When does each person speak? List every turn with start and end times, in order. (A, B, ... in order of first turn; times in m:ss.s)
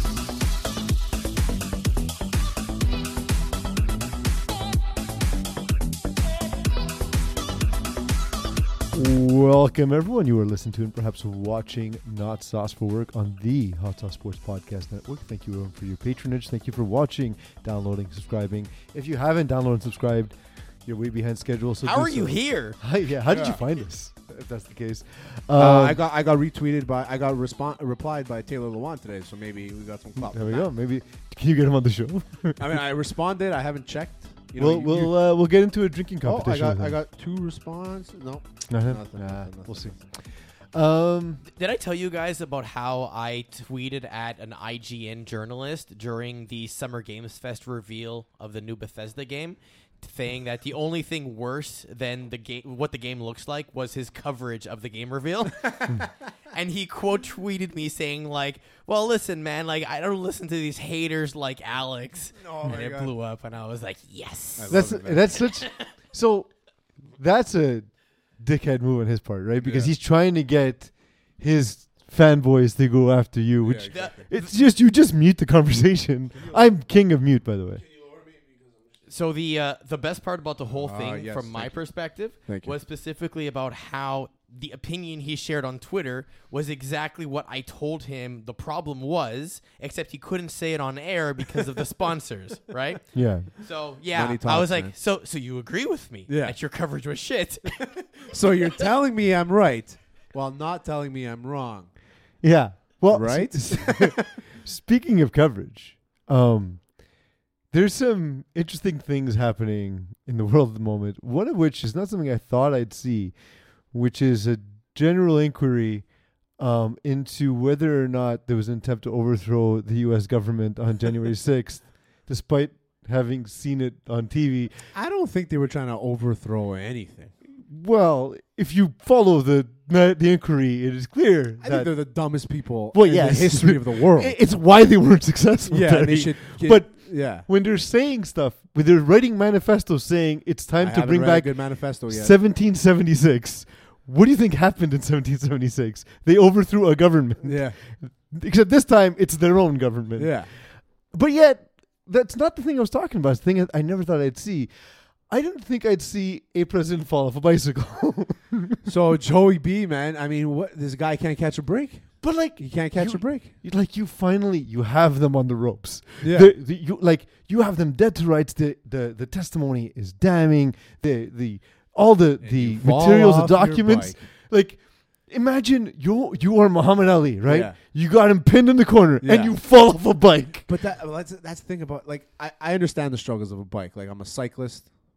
0:08.9-0:26.0 A
0:21.8-0:22.8 B
0:23.3-0:23.6 C
0:25.6-0:30.7 C
0:30.2-0:32.8 A
0:32.6-0:35.2 C
0:34.6-0:37.0 A
0:36.2-0:40.0 C
0:38.7-0:40.2 A
0:40.7-0:41.4 A
0:41.6-1:05.9 B
1:02.4-1:03.1 C
1:04.6-1:05.3 C
1:04.7-1:06.5 A
1:07.2-1:17.8 A
1:09.6-1:09.9 C
1:13.6-1:14.3 C
1:13.9-1:14.4 B
1:19.1-1:38.3 B
1:20.7-1:21.8 C
1:22.5-1:22.7 C
1:33.1-1:33.5 A
1:34.1-1:34.9 C
1:36.3-1:36.6 C
1:38.3-1:41.9 C
1:42.4-1:47.2 A
1:43.1-1:44.2 C
1:47.7-1:53.4 A
1:53.9-1:56.1 A
1:56.6-2:04.9 A
2:04.9-2:07.3 C
2:07.6-2:12.0 A
2:11.6-2:14.4 C
2:12.9-2:34.7 A
2:15.7-2:17.5 C
2:20.8-2:22.4 C
2:27.4-2:27.8 C
2:30.2-2:30.5 C
2:35.3-2:38.8 A
2:38.8-2:43.5 C
2:42.2-3:00.7 A
2:46.2-2:46.5 C
2:52.4-2:54.2 C
2:57.5-2:57.8 C
2:59.2-2:59.6 C
3:00.7-3:04.9 C